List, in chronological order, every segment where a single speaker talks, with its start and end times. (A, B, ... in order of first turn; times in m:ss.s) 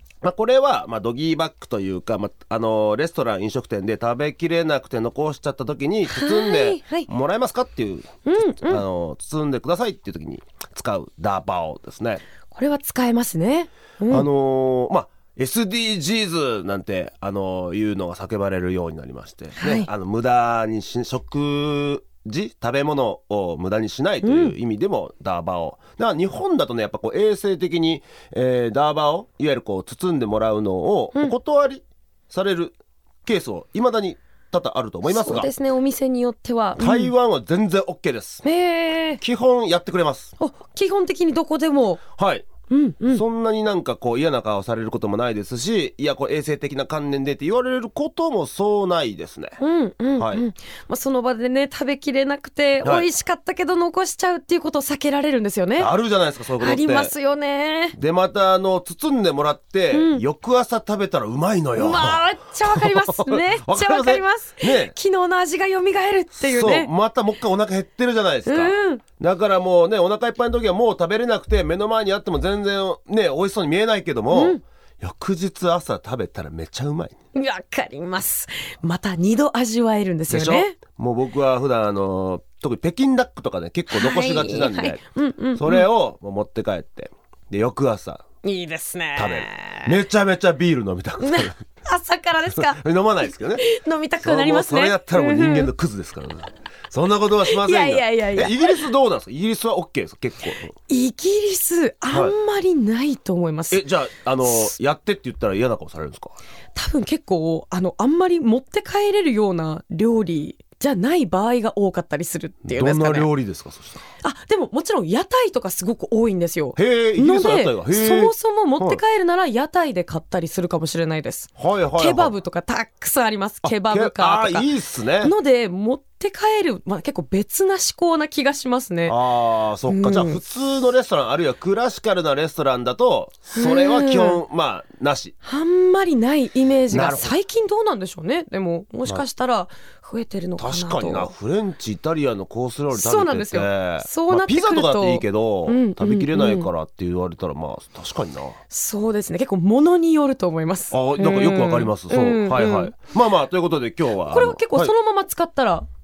0:00.2-0:12.2 A
0:06.1-0:07.1 B
0:08.2-0:08.8 B
0:12.5-0:14.2 B
0:14.1-0:35.5 A
0:19.6-0:19.9 B
0:24.2-0:24.5 B
0:35.0-0:37.1 B
0:36.8-0:38.4 A
0:38.4-0:39.2 B
0:39.2-0:40.3 A
0:40.4-0:42.0 B
0:42.2-0:42.5 A
0:42.7-0:43.2 B
0:43.1-0:49.6 A
0:49.6-0:55.9 B
0:50.2-0:50.4 A
0:55.8-0:57.1 A
0:56.6-0:58.0 B
0:57.9-1:05.0 A
0:59.9-1:00.2 B
1:01.8-1:06.9 B
1:06.4-1:17.1 A
1:08.4-1:09.0 B
1:14.3-1:14.6 B
1:17.3-1:20.8 B
1:20.3-1:25.0 A
1:23.9-1:25.9 B
1:25.6-1:28.2 A
1:28.4-1:29.9 B
1:29.2-1:31.6 A
1:31.2-1:35.7 B
1:32.5-1:33.6 A
1:34.2-1:40.7 A
1:37.4-1:38.9 B
1:40.9-1:43.8 B
1:42.1-1:42.4 A
1:43.7-1:46.3 A
1:44.4-1:44.7 B
1:46.7-1:53.3 B
1:52.6-1:54.0 A
1:54.2-2:04.7 B
1:56.8-1:59.0 A
2:01.6-2:02.3 A
2:03.6-2:05.3 A
2:05.2-2:09.2 B
2:09.1-2:15.3 A
2:09.9-2:10.4 B
2:13.5-2:14.4 B
2:15.4-2:21.3 B
2:16.9-2:17.4 A
2:20.6-2:28.6 A
2:22.9-2:26.7 B
2:28.7-2:33.0 B
2:30.9-2:34.9 A
2:34.2-2:35.9 B